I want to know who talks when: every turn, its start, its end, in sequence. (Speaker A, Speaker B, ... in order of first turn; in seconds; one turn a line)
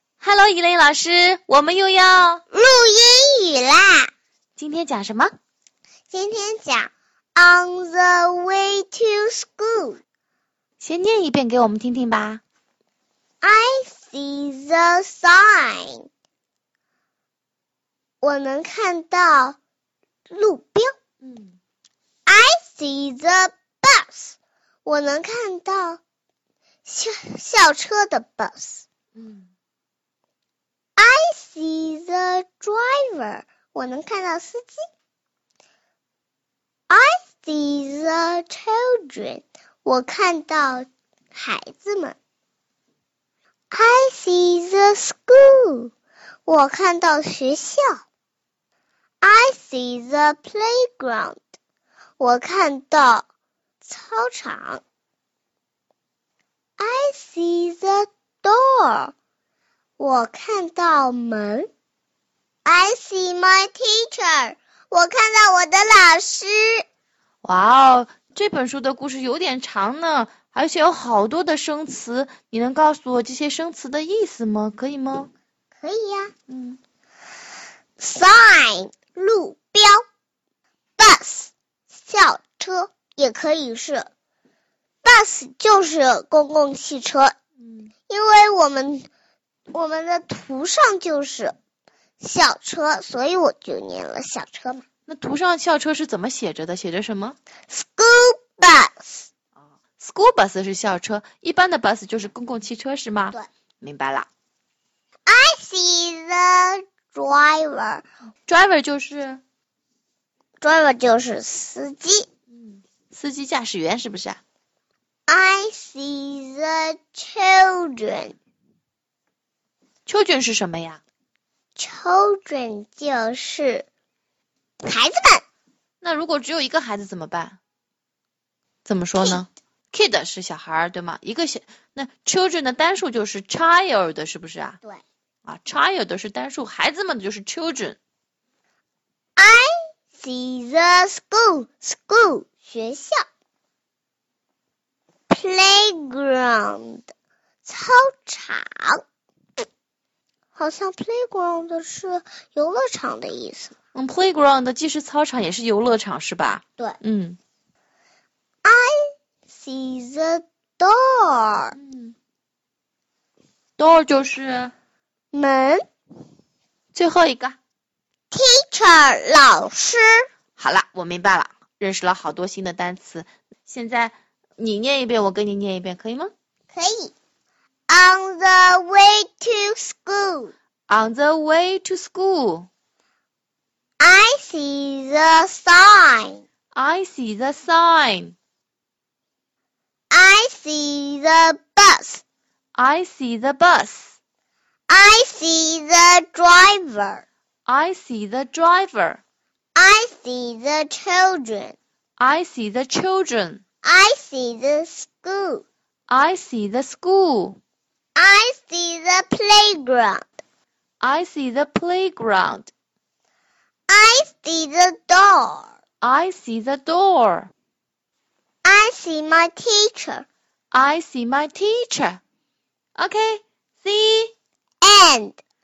Speaker A: 0.2-2.4
Speaker B: 2.5-4.1
Speaker A: 4.6-5.3
Speaker B: 6.1-10.0
Speaker A: 10.8-12.4
Speaker B: 13.4-16.1
Speaker B: 18.2-19.6
Speaker B: 20.3-20.9
Speaker A: 21.2-21.6
Speaker B: 22.3-26.0
Speaker B: 26.8-28.9
Speaker A: 29.1-29.5
Speaker B: 31.0-34.9
Speaker B: 36.9-42.2
Speaker B: 43.7-45.9
Speaker B: 46.5-48.0
Speaker B: 49.2-51.4
Speaker B: 52.2-53.3
Speaker B: 53.8-54.8
Speaker B: 56.8-59.1
Speaker B: 60.0-61.7
Speaker B: 62.6-66.8
Speaker A: 67.4-75.3
Speaker B: 75.8-76.3
Speaker A: 76.5-76.8
Speaker B: 78.0-80.0
Speaker B: 81.0-84.1
Speaker B: 85.0-87.3
Speaker A: 87.6-87.9
Speaker B: 88.1-89.1
Speaker B: 89.7-91.5
Speaker B: 92.2-94.8
Speaker A: 95.1-97.4
Speaker B: 97.7-99.3
Speaker A: 100.0-104.3
Speaker B: 105.3-108.0
Speaker A: 108.5-109.4
Speaker B: 110.6-112.3
Speaker A: 112.5-114.4
Speaker B: 115.3-118.3
Speaker A: 120.0-121.0
Speaker B: 121.7-123.9
Speaker B: 124.8-125.4
Speaker A: 126.0-127.6
Speaker A: 128.8-134.8
Speaker A: 135.4-138.0
Speaker B: 139.4-143.2
Speaker B: 145.3-147.1
Speaker B: 147.6-149.0
Speaker B: 150.5-153.7
Speaker A: 153.9-157.4
Speaker B: 158.6-159.0
Speaker B: 159.5-161.8
Speaker A: 161.8-162.1
Speaker A: 163.8-164.7
Speaker B: 165.3-165.8
Speaker A: 166.9-167.6
Speaker B: 168.3-170.3
Speaker A: 170.6-176.3
Speaker B: 176.7-177.1
Speaker B: 177.9-180.5
Speaker A: 180.9-182.7
Speaker B: 184.0-186.4
Speaker A: 186.7-188.3
Speaker B: 190.1-192.2
Speaker A: 192.8-194.1
Speaker B: 194.9-197.2
Speaker A: 197.7-199.2
Speaker B: 199.8-201.8
Speaker A: 202.2-203.6
Speaker B: 203.8-205.6
Speaker A: 206.1-207.6
Speaker B: 208.2-210.3
Speaker A: 211.0-212.7
Speaker B: 213.9-215.7
Speaker A: 216.0-217.5
Speaker B: 218.6-220.2
Speaker A: 220.7-222.2
Speaker A: 222.9-224.3
Speaker B: 224.8-225.4